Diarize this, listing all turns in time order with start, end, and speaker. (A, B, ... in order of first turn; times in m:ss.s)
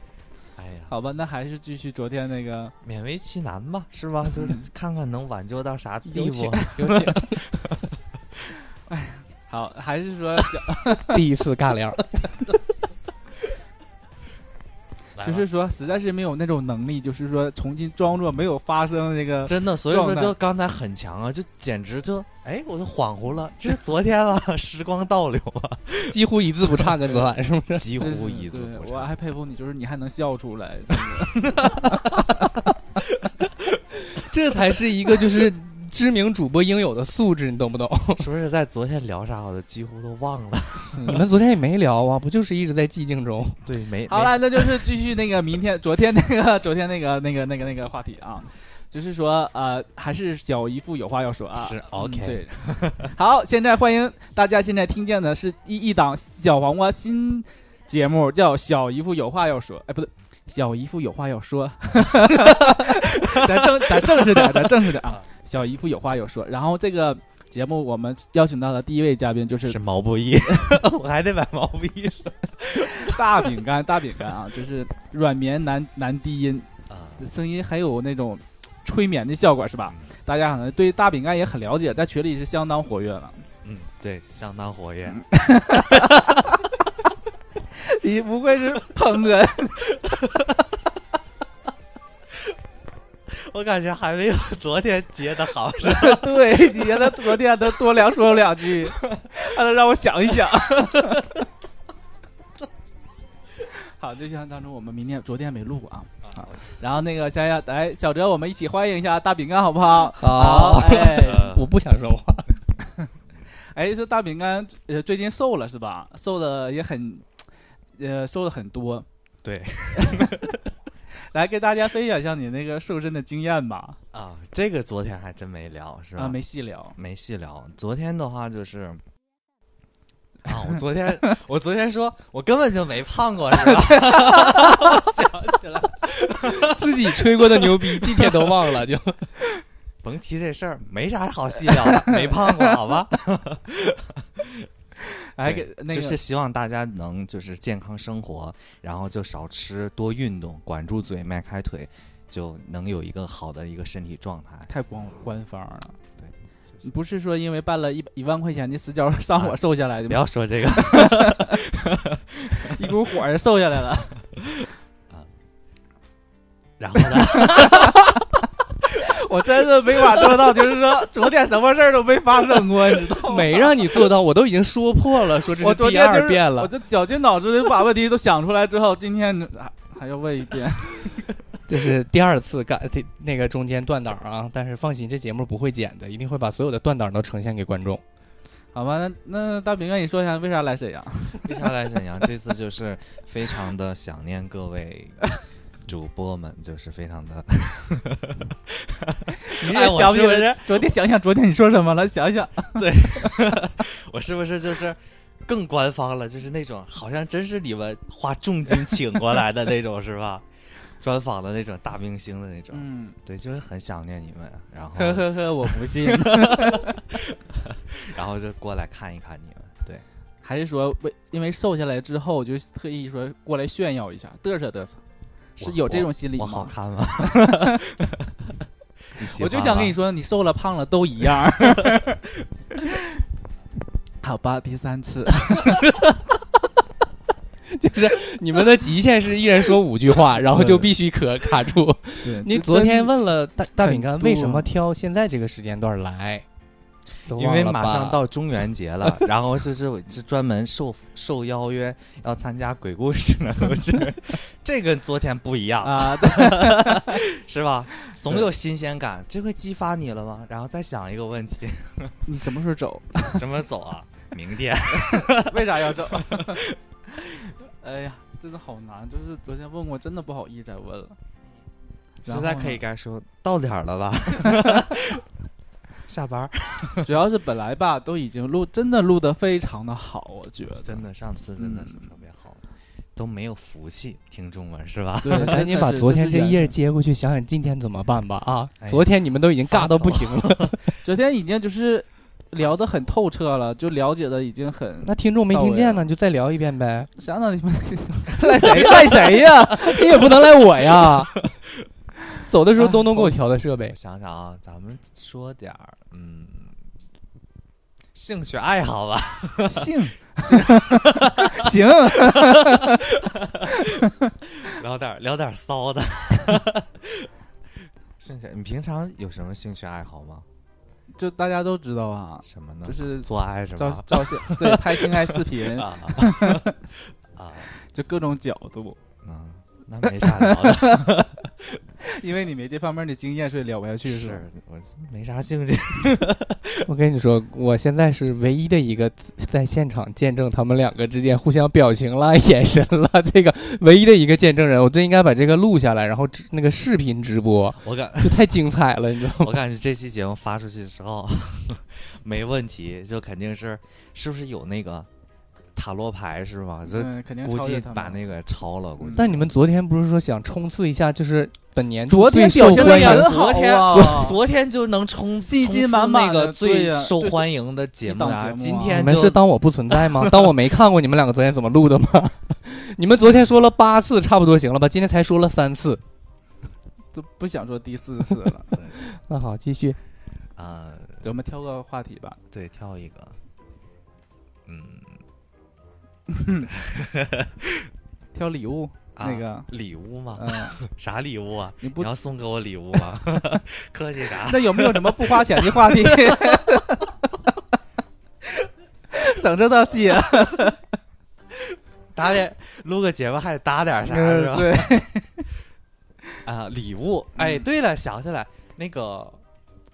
0:00.6-0:00.9 A
0:00.9-0:02.7 B
0:02.8-0:07.8 A
0:04.4-0:04.6 B
0:06.1-0:07.4 C
0:06.3-0:06.6 B
0:08.9-0:11.2 B
0:11.0-0:12.4 C
0:15.2-0:15.5 A
0:15.2-0:20.3 B
0:19.4-0:27.2 A
0:26.1-0:27.9 C
0:27.7-0:29.1 A
0:27.9-0:32.5 B
0:31.4-0:32.2 A
0:33.2-0:33.6 A
0:34.0-0:38.2 C
0:38.2-0:41.2 A
0:41.0-0:43.6 C
0:43.6-0:44.9 A
0:44.1-1:09.8 B
0:51.5-0:53.1 A
1:02.7-1:05.2 A
1:09.6-1:13.5 A
1:13.0-1:16.7 B
1:16.9-1:17.2 A
1:17.2-1:23.4 B
1:23.6-1:26.4 A
1:25.1-1:26.7 B
1:27.8-1:30.0 B
1:33.3-1:37.4 A
1:35.8-1:41.4 B
1:44.0-1:51.5 B
1:46.2-1:46.7 A
1:50.1-1:52.5 C
1:50.5-1:51.7 A
1:53.7-1:57.2 B
1:58.0-1:59.0 B
1:59.4-2:00.6 A
2:00.0-2:00.3 B
2:01.3-2:04.0 B
2:04.1-2:06.4 A
2:06.2-2:07.0 B
2:07.0-2:09.0 A
2:10.4-2:17.1 A
2:13.6-2:14.9 B
2:16.5-2:19.3 C
2:20.0-2:24.7 A
2:21.9-2:22.5 B
2:25.1-2:26.2 B
2:25.4-2:34.7 A
2:34.7-2:36.0 B
2:36.2-2:36.9 A
2:36.8-2:41.6 B
2:39.4-2:42.9 A
2:42.6-2:44.3 B
2:46.8-2:48.0 A
2:47.2-2:48.1 B
2:49.0-2:53.7 B
2:53.2-2:56.7 C
2:55.6-3:01.2 B
3:01.7-3:08.0 C
3:08.7-3:11.7 B
3:11.4-3:15.3 A
3:15.8-3:20.9 A
3:19.4-3:23.6 B
3:22.8-3:30.4 A
3:31.0-3:40.0 A
3:32.7-3:33.2 B
3:34.9-3:37.0 B
3:40.4-3:45.0 B
3:45.6-3:47.8 B
3:45.6-3:48.5 A
3:49.2-3:50.0 A
3:49.2-3:52.2 B
3:52.7-3:53.1 B
3:54.2-3:55.8 B
3:57.7-4:06.4 C
4:00.5-4:00.9 B
4:02.2-4:03.1 B
4:03.8-4:04.7 B
4:07.3-4:08.2 C
4:07.3-4:22.2 A
4:15.8-4:17.2 B
4:22.2-4:23.5 B
4:23.3-4:26.8 A
4:25.0-4:31.2 B
4:32.2-4:32.8 B
4:32.2-4:35.2 A
4:36.1-4:37.1 A
4:37.0-4:41.0 B
4:40.7-4:42.6 A
4:41.6-4:42.1 B
4:43.2-4:45.5 A
4:45.2-4:46.7 B
4:45.3-4:50.8 C
4:48.8-4:49.1 A
4:49.7-4:50.9 A
4:51.0-4:56.1 B
4:55.0-4:57.1 C
4:57.2-5:00.1 B
4:59.7-5:01.3 C
5:02.4-5:04.0 C
5:02.8-5:03.4 B
5:03.9-5:06.7 A
5:08.1-5:17.3 A
5:09.7-5:13.1 B
5:13.7-5:14.2 B
5:18.2-5:20.4 A
5:21.1-5:26.7 B
5:22.4-5:26.7 A
5:27.3-5:27.7 A
5:27.9-5:29.0 B
5:29.2-5:31.8 A
5:30.2-5:31.3 B
5:32.0-5:34.4 B
5:34.0-5:36.9 A
5:36.8-5:49.5 C
5:47.8-5:48.6 A
5:49.4-5:55.1 A
5:55.7-5:59.6 A
5:56.9-5:58.2 B
5:59.0-5:59.3 B
5:59.2-6:03.3 C
6:02.1-6:04.4 B
6:02.5-6:10.5 A
6:05.5-6:07.5 B
6:08.0-6:09.1 B
6:08.9-6:16.0 C
6:17.1-6:18.8 B
6:19.0-6:20.0 C
6:20.6-6:21.3 A
6:21.2-6:22.4 B
6:22.5-6:23.3 A
6:24.6-6:25.2 A
6:26.3-6:26.7 B
6:26.7-6:27.9 A
6:28.3-6:29.7 B
6:29.2-6:36.6 A
6:30.3-6:30.8 B
6:31.8-6:32.1 B
6:34.4-6:37.3 B
6:39.1-6:40.8 B
6:42.1-6:45.0 A
6:44.0-6:45.5 B
6:46.4-6:49.4 A
6:47.4-6:47.6 B